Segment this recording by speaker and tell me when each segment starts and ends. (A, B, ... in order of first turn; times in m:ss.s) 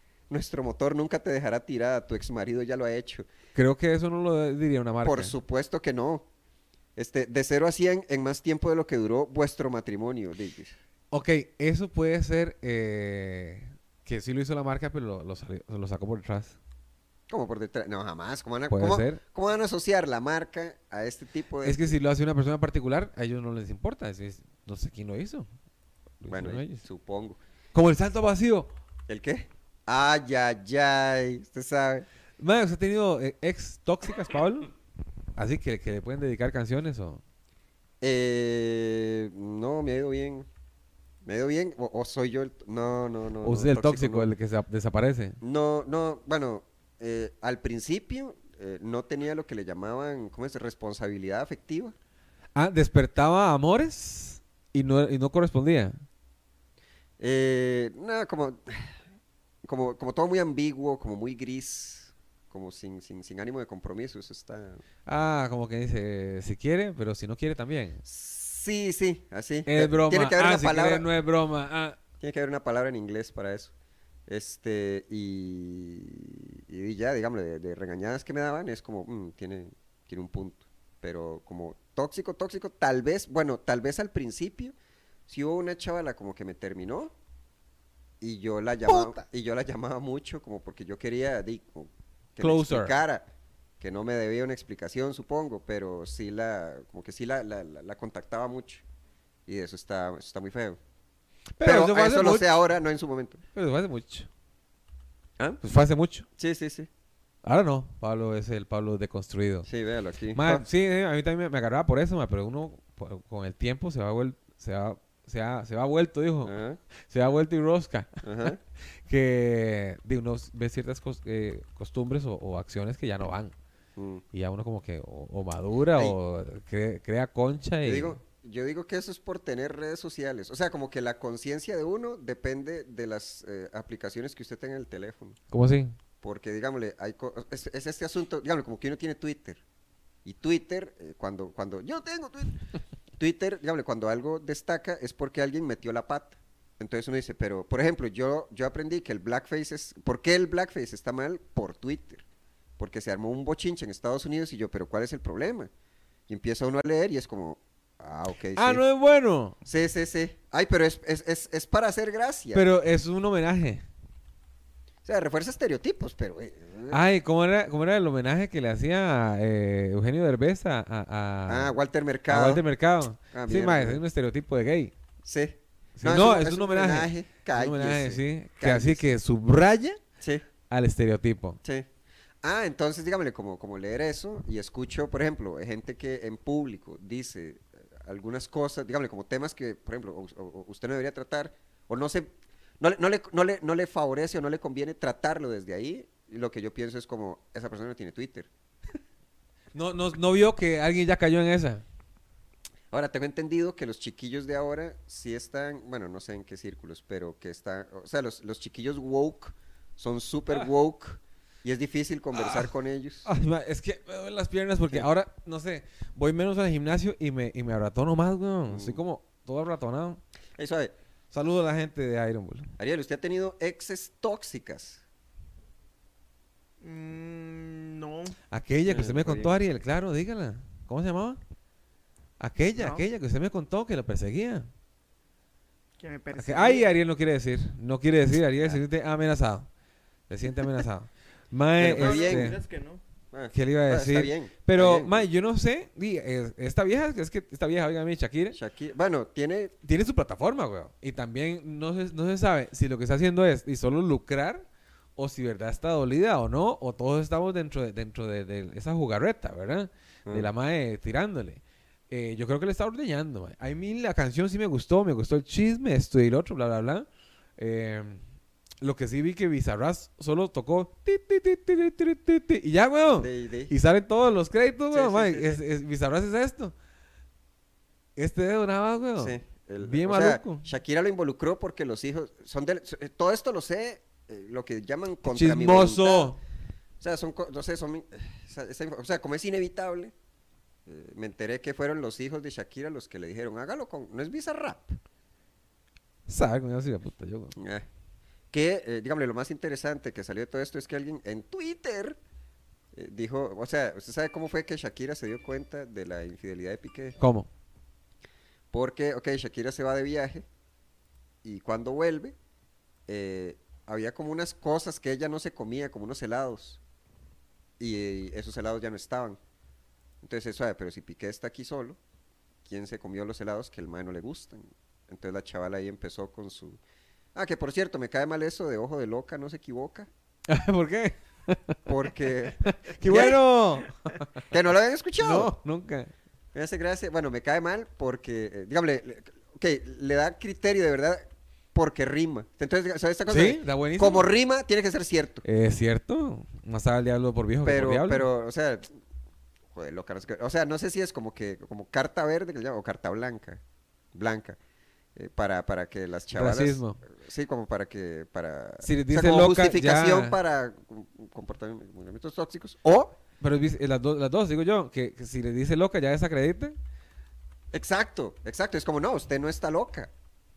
0:00.3-0:03.3 A
0:03.5-0:05.3 B
0:05.0-0:06.3 A
0:07.0-0:10.8 A
0:11.1-0:16.6 B
0:17.3-0:21.9 A
0:18.7-0:19.2 B
0:21.6-0:25.5 B
0:26.2-0:26.8 B
0:26.3-0:27.4 A
0:27.7-0:28.7 B
0:29.1-0:32.0 A
0:32.4-0:34.7 B
0:35.4-0:37.2 B
0:38.0-0:40.5 A
0:41.2-0:44.3 A
0:43.4-0:45.4 B
0:45.4-0:51.9 A
0:52.5-0:56.0 B
0:57.2-0:59.0 A
0:59.6-1:04.8 A
1:05.0-1:08.0 B
1:08.0-1:11.0 A
1:09.6-1:12.0 B
1:12.2-1:13.7 A
1:14.3-1:24.7 A
1:25.3-1:27.1 A
1:28.2-1:33.3 A
1:28.9-1:29.2 B
1:32.4-1:33.0 B
1:33.8-1:38.8 A
1:39.4-1:40.8 A
1:41.6-1:42.4 B
1:41.6-1:43.4 A
1:43.5-1:44.3 B
1:45.6-1:46.3 B
1:46.4-1:46.9 A
1:47.4-1:49.7 B
1:49.6-1:50.6 A
1:50.3-1:58.5 B
1:56.4-1:56.8 A
1:58.2-1:58.6 A
1:59.0-2:03.5 B
2:04.0-2:04.2 A
2:04.3-2:08.2 B
2:07.8-2:15.4 A
2:15.5-2:15.9 B
2:16.2-2:19.6 A
2:20.2-2:22.6 A
2:23.2-2:32.2 A
2:32.8-2:35.7 A
2:36.3-2:38.8 A
2:38.5-2:39.6 B
2:39.6-2:42.6 A
2:42.5-2:43.8 B
2:45.0-2:47.0 A
2:46.9-2:51.8 B
2:51.5-2:52.6 A
2:52.3-2:54.9 B
2:53.3-2:54.0 A
2:55.2-2:59.0 A
2:56.0-3:00.0 B
3:00.2-3:00.4 A
3:00.7-3:01.6 B
3:02.4-3:18.5 A
3:19.7-3:21.8 B
3:22.9-3:33.3 A
3:32.4-3:32.6 B
3:33.2-3:40.2 B
3:38.7-3:39.0 A
3:40.6-3:40.9 A
3:41.3-3:42.7 B
3:42.8-3:45.0 A
3:46.8-3:48.4 C
3:48.5-3:51.4 B
3:48.8-3:49.6 A
3:52.4-3:54.7 B
3:52.8-3:53.0 C
3:56.0-3:56.9 C
3:56.4-3:59.7 B
4:00.3-4:02.6 B
4:01.8-4:02.5 A
4:02.0-4:03.0 C
4:03.3-4:05.3 A
4:03.5-4:08.6 B
4:08.5-4:09.7 A
4:09.8-4:14.6 B
4:15.2-4:27.1 B
4:27.6-4:28.2 B
4:28.8-4:36.7 B
4:33.2-4:33.7 A
4:34.9-4:35.6 A
4:38.2-4:40.6 B
4:39.2-4:46.3 A
4:45.2-4:46.4 B
4:47.0-4:50.1 A
4:50.8-4:55.0 A
4:56.3-4:57.5 B
4:57.6-4:57.9 A
4:58.5-5:02.2 A
5:02.9-5:07.2 A
5:07.2-5:07.5 B
5:08.7-5:10.5 A
5:11.4-5:12.4 A
5:13.1-5:16.8 A
5:17.8-5:19.4 A
5:20.2-5:22.0 A
5:22.6-5:26.8 A
5:27.3-5:30.1 A
5:30.5-5:31.8 B
5:31.8-5:33.4 A
5:32.6-5:34.2 B
5:34.5-5:35.5 A
5:35.2-5:36.1 B
5:36.5-5:45.4 A
5:43.3-5:44.3 B
5:45.4-5:48.2 B
5:47.6-5:48.9 A
5:49.7-5:53.6 A
5:54.1-5:54.6 A
5:55.1-6:03.1 A
5:56.3-5:57.0 B
5:58.8-6:00.4 B
6:03.4-6:06.8 B
6:07.7-6:10.1 A